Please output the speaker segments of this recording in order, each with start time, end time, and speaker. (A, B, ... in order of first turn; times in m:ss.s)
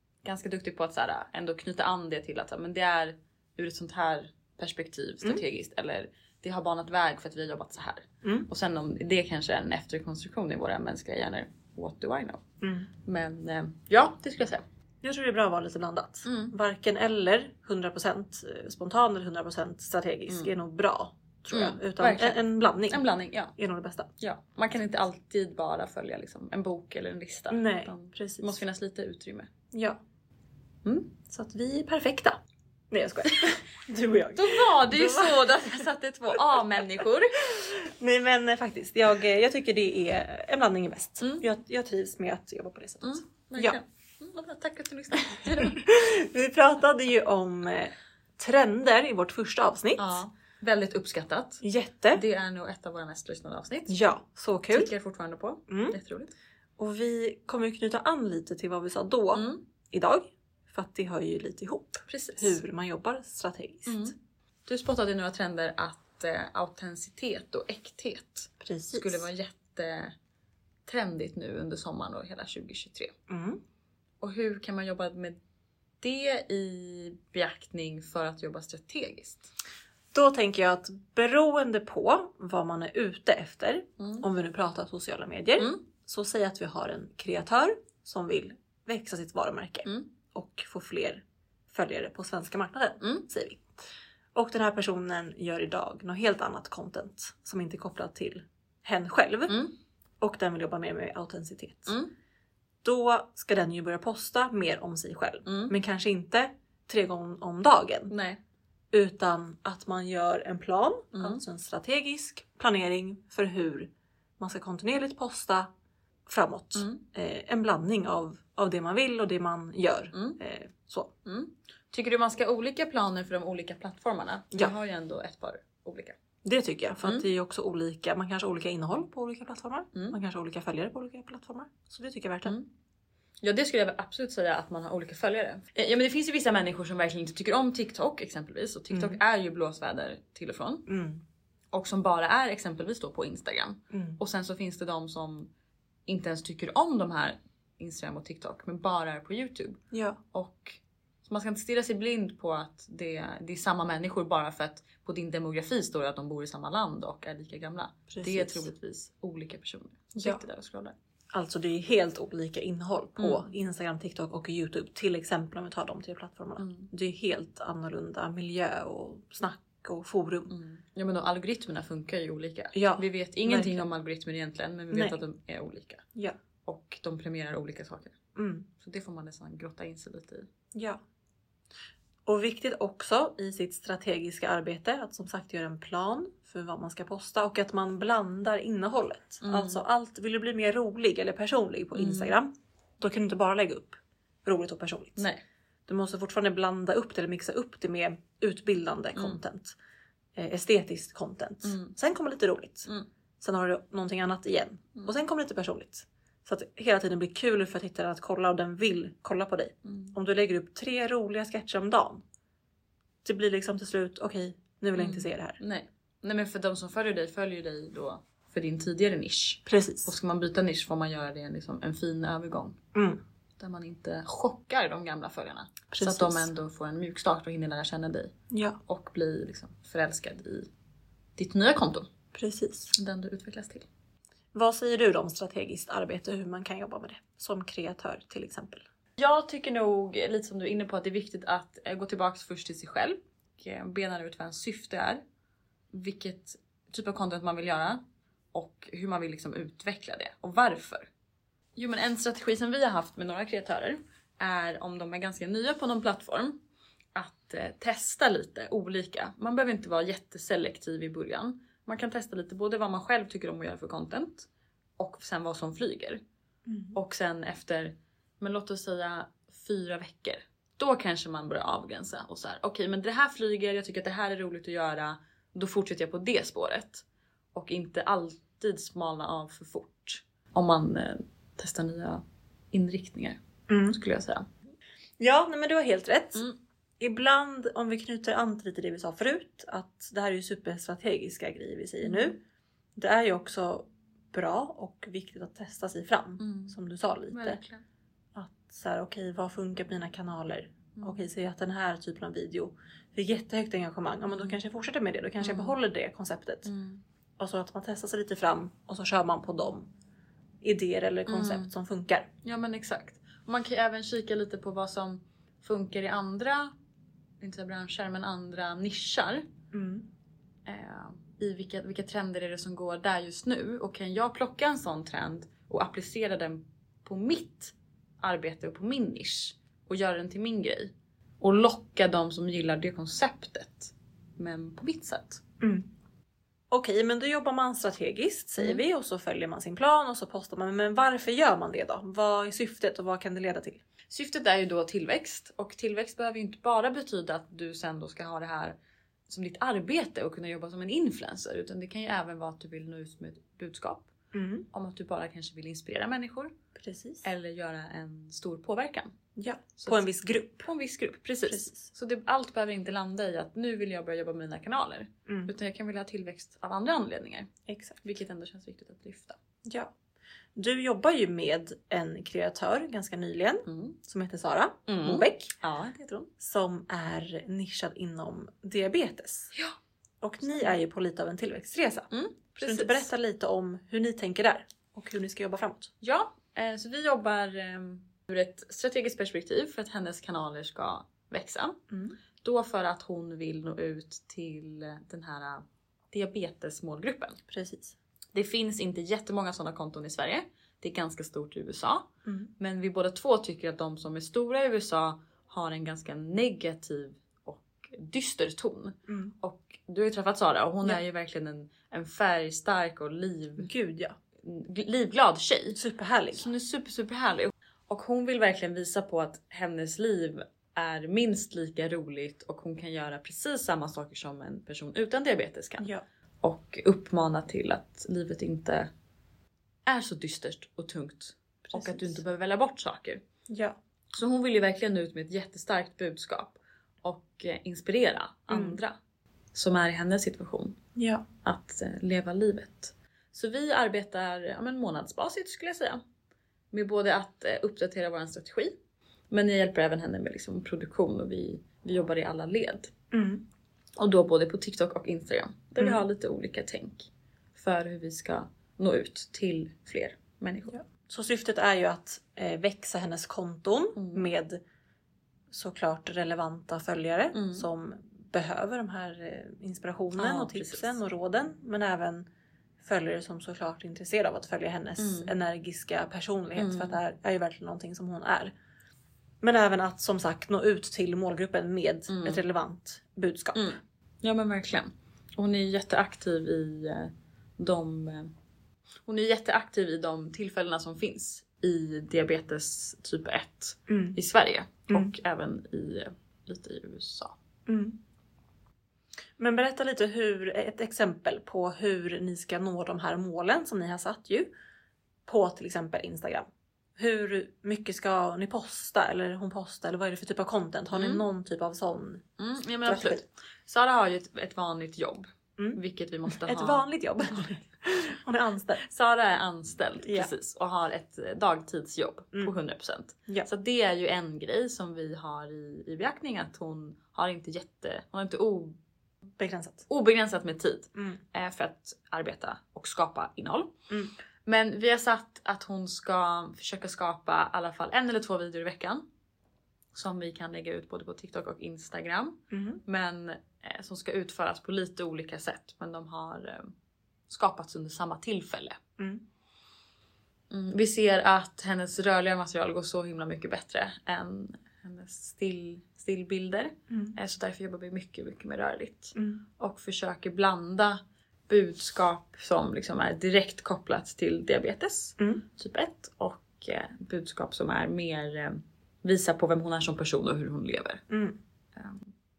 0:00.2-0:12.4 A
0:08.2-0:08.5 B
0:12.6-0:12.9 B
0:13.0-0:14.6 A
0:15.0-0:24.1 B
0:16.2-0:16.5 A
0:21.5-0:23.5 A
0:24.2-0:29.5 A
0:27.5-0:28.6 B
0:29.7-0:30.0 B
0:30.8-0:31.1 A
0:31.3-0:32.4 B
0:32.9-0:35.8 B
0:34.3-0:37.4 A
0:36.8-0:43.8 B
0:43.0-0:45.8 A
0:45.4-0:50.2 B
0:50.0-0:51.6 A
0:51.6-0:52.2 B
0:52.1-0:54.0 A
0:53.9-0:54.9 B
0:54.7-0:56.3 A
0:55.7-0:56.0 B
0:56.8-1:04.2 B
0:59.3-0:59.6 A
1:02.1-1:02.6 A
1:03.9-1:04.2 A
1:04.7-1:10.2 A
1:08.6-1:09.3 B
1:10.9-1:13.1 A
1:13.3-1:13.6 B
1:14.2-1:15.4 A
1:16.0-1:19.5 A
1:20.1-1:33.7 B
1:24.0-1:24.2 A
1:33.0-1:33.3 A
1:34.4-1:39.6 B
1:39.5-1:39.8 A
1:40.2-1:42.0 B
1:41.9-1:42.1 A
1:42.8-1:48.1 B
1:45.5-1:45.7 A
1:48.1-1:48.4 A
1:48.9-1:55.7 B
1:51.1-1:51.4 A
1:56.3-2:01.1 B
1:56.8-1:57.0 A
2:00.1-2:00.4 A
2:01.2-2:06.2 A
2:06.4-2:12.6 B
2:13.4-2:20.9 A
2:18.9-2:19.2 B
2:20.9-2:21.2 B
2:21.7-2:25.5 A
2:23.9-2:24.2 B
2:26.1-2:29.8 A
2:29.9-2:30.2 B
2:30.3-2:41.0 A
2:38.1-2:38.7 B
2:40.2-2:40.4 B
2:41.3-2:50.5 B
2:43.2-2:43.5 A
2:46.6-2:46.9 A
2:50.5-2:56.0 A
2:52.7-2:53.8 B
2:54.9-2:55.2 B
2:56.6-2:58.2 A
2:58.4-2:58.7 B
2:58.8-3:00.5 A
3:00.7-3:01.0 B
3:02.3-3:15.3 B
3:09.4-3:09.8 A
3:12.0-3:12.4 A
3:15.2-3:15.4 A
3:15.9-3:19.8 B
3:20.4-3:32.2 B
3:21.6-3:21.9 A
3:29.8-3:30.2 A
3:33.2-3:35.6 B
3:35.0-3:42.8 A
3:39.7-3:40.1 B
3:42.9-3:43.2 B
3:43.6-3:48.3 A
3:45.9-3:46.5 B
3:48.5-3:48.8 B
3:48.9-3:50.7 A
3:51.4-3:52.1 A
3:52.3-3:53.0 B
3:53.0-3:53.9 A
3:54.6-3:58.8 B
3:59.2-4:05.2 A
4:05.9-4:11.1 A
4:11.8-4:16.6 A
4:17.1-4:26.2 A
4:26.7-4:27.0 B
4:26.9-4:44.5 A
4:43.7-4:44.0 B
4:45.2-4:46.5 B
4:47.0-4:52.4 B
4:52.0-4:52.3 A
4:53.0-4:57.6 B
4:56.4-4:56.8 A
4:57.3-4:57.8 A
4:58.4-5:06.7 B
5:01.0-5:01.2 A
5:04.3-5:04.6 A
5:05.4-5:05.8 A
5:06.6-5:07.0 A
5:07.4-5:09.9 B
5:10.6-5:12.3 B
5:11.3-5:11.7 A
5:12.4-5:16.7 A
5:17.4-5:19.5 A
5:19.7-5:20.1 B
5:20.6-5:35.4 A
5:35.6-5:35.9 B
5:36.7-5:43.8 B
5:44.1-5:48.8 A
5:49.3-5:54.1 A
5:54.3-5:54.7 B
5:54.7-5:56.5 A
5:56.8-5:57.3 B
5:57.2-5:59.1 A
5:59.4-6:00.7 B
5:59.8-6:00.0 A
6:00.6-6:07.5 A
6:01.5-6:01.9 B
6:05.3-6:05.5 B
6:07.7-6:08.1 B
6:08.0-6:09.4 A
6:09.6-6:09.9 B
6:10.6-6:15.6 B
6:13.7-6:14.0 A
6:14.9-6:16.3 A
6:16.4-6:19.5 B
6:20.2-6:25.9 B
6:20.4-6:20.8 A
6:22.1-6:23.1 A
6:26.0-6:31.8 A
6:31.9-6:32.2 B
6:32.4-6:37.4 A
6:37.5-6:38.0 B
6:38.3-6:53.7 A
6:42.2-6:42.5 B
6:49.1-6:49.3 B
6:53.6-6:54.2 B
6:54.4-6:55.8 A
6:55.7-6:56.5 B
6:56.3-7:05.9 A
7:06.4-7:08.9 A
7:09.9-7:13.2 A
7:11.7-7:12.2 B
7:13.5-7:13.8 B
7:14.1-7:19.0 A
7:18.5-7:18.8 B
7:19.5-7:20.8 A
7:21.0-7:21.2 B
7:21.4-7:26.0 A
7:26.7-7:28.8 A
7:29.3-7:32.9 A
7:33.1-7:33.4 B
7:34.0-7:40.8 A
7:35.8-7:36.0 B
7:40.7-7:44.6 B
7:44.0-7:44.3 A
7:45.5-7:52.3 B
7:47.3-7:47.7 A
7:50.2-7:51.0 A
7:52.8-7:58.5 B
7:55.0-7:55.3 A
7:56.6-7:57.0 A
7:59.4-8:03.8 B
8:02.1-8:02.4 A
8:03.6-8:08.3 A
8:09.1-8:17.4 A
8:13.9-8:14.2 B
8:17.7-8:18.0 B
8:19.4-8:24.5 B
8:25.3-8:32.2 B
8:30.9-8:31.2 A
8:32.4-8:36.8 A
8:32.8-8:33.2 B
8:35.6-8:38.8 B
8:38.8-8:48.8 A
8:40.0-8:40.3 B
8:49.4-8:49.9 B
8:49.9-8:53.7 A
8:51.0-8:51.2 B
8:54.5-8:59.0 A
8:59.9-9:06.7 A
9:02.5-9:02.8 B
9:07.3-9:08.8 A
9:09.0-9:09.2 B
9:10.5-9:31.0 A
9:16.9-9:17.2 B
9:19.2-9:19.4 B
9:25.2-9:25.4 B
9:31.1-9:31.4 B
9:31.8-9:32.1 A